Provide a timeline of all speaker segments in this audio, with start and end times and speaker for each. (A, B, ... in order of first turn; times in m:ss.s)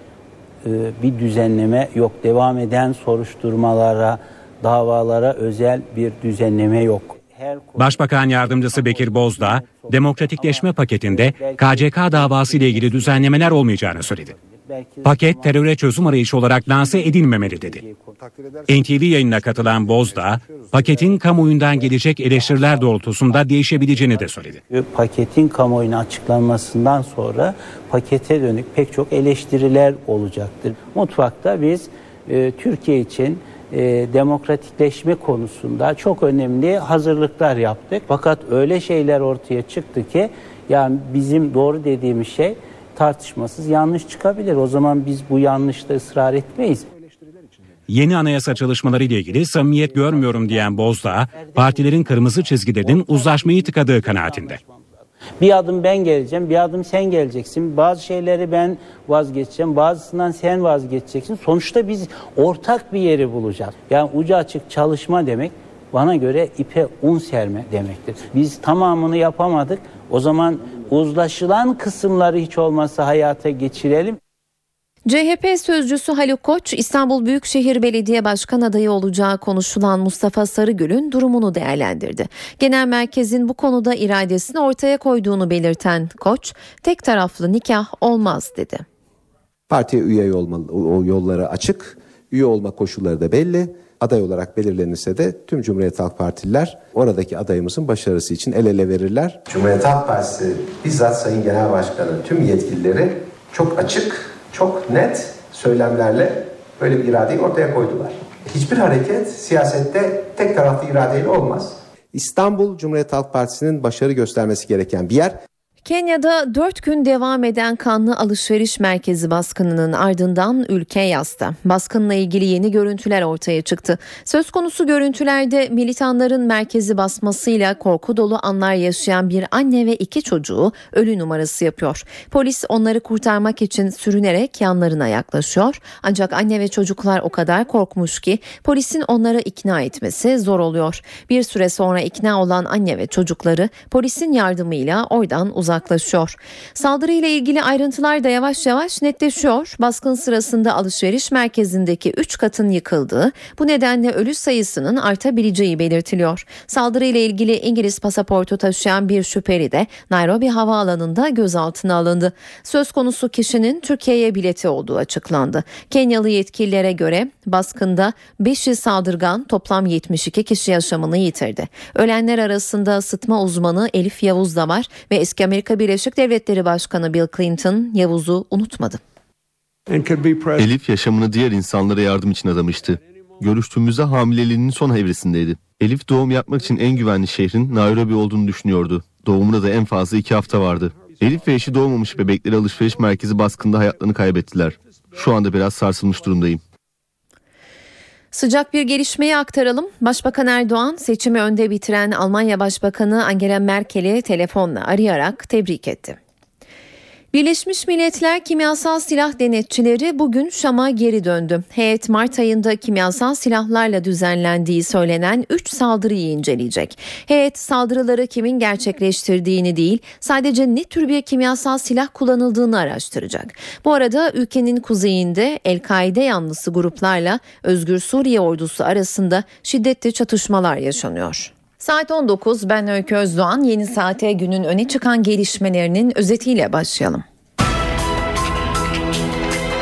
0:00.6-0:13.6 A
0:07.8-0:14.3 B
0:14.2-0:15.6 A
0:15.0-0:17.8 B
0:16.7-0:18.2 A
0:18.7-0:24.6 B
0:20.5-0:21.1 A
0:23.9-0:47.4 A
0:47.9-0:54.6 B
0:49.8-0:50.7 A
0:51.3-1:14.2 A
1:15.0-1:28.8 C
1:29.7-1:55.4 D
1:55.8-2:59.0 C
3:00.6-3:16.6 E
3:18.3-3:26.2 C
3:27.3-3:57.2 C